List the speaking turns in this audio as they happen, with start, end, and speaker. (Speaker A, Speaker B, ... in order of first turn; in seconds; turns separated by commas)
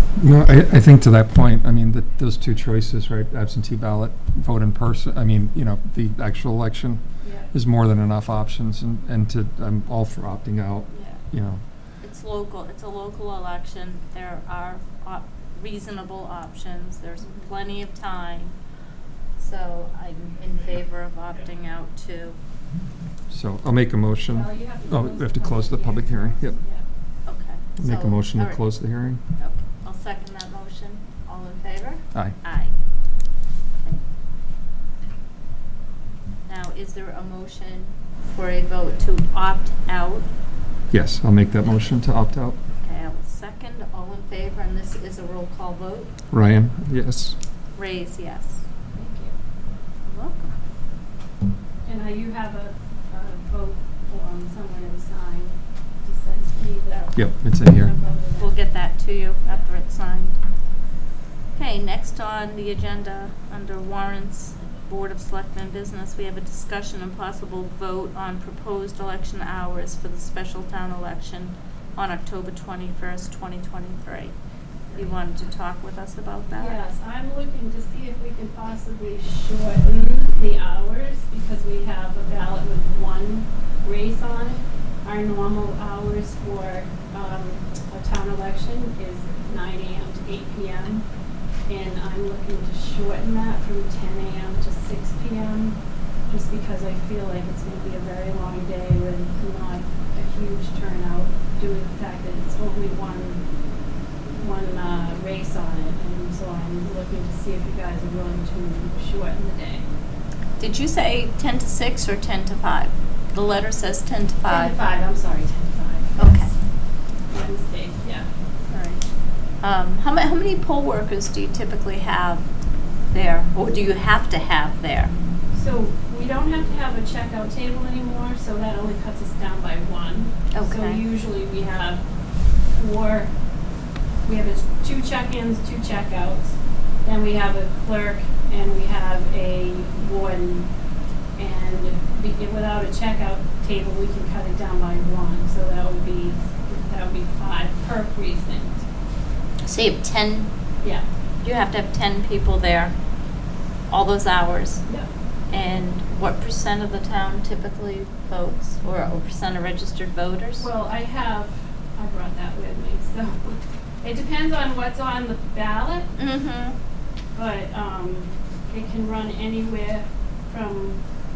Speaker A: 0.1-11.6, Speaker B: 7.2-7.5, Speaker C: 10.9-11.2, Speaker C: 12.0-18.6, Speaker B: 17.2-17.5, Speaker C: 19.4-22.4, Speaker A: 23.3-26.6, Speaker B: 24.3-26.8, Speaker C: 27.2-32.7, Speaker A: 27.8-29.2, Speaker C: 36.5-40.3, Speaker A: 40.9-42.6, Speaker C: 42.8-46.1, Speaker A: 46.3-47.4, Speaker C: 47.8-48.6, Speaker B: 48.9-49.4, Speaker C: 50.0-50.5, Speaker B: 51.9-58.5, Speaker A: 57.1-57.9, Speaker C: 58.4-60.4, Speaker C: 61.5-74.3, Speaker B: 74.9-75.2, Speaker C: 74.9-76.8, Speaker B: 76.5-91.0, Speaker B: 91.7-103.4, Speaker B: 104.3-109.8, Speaker C: 110.6-114.8, Speaker B: 114.5-116.5, Speaker C: 116.2-116.5, Speaker B: 117.3-118.3, Speaker C: 118.7-119.0, Speaker C: 119.6-122.5, Speaker C: 123.1-125.1, Speaker B: 125.5-132.0, Speaker C: 130.5-131.0, Speaker B: 132.7-133.3, Speaker B: 134.2-140.7, Speaker B: 141.4-148.8, Speaker C: 149.6-150.5, Speaker C: 151.4-152.9, Speaker C: 153.9-154.8, Speaker C: 155.5-160.7, Speaker B: 160.6-166.1, Speaker C: 166.2-166.7, Speaker B: 167.3-171.0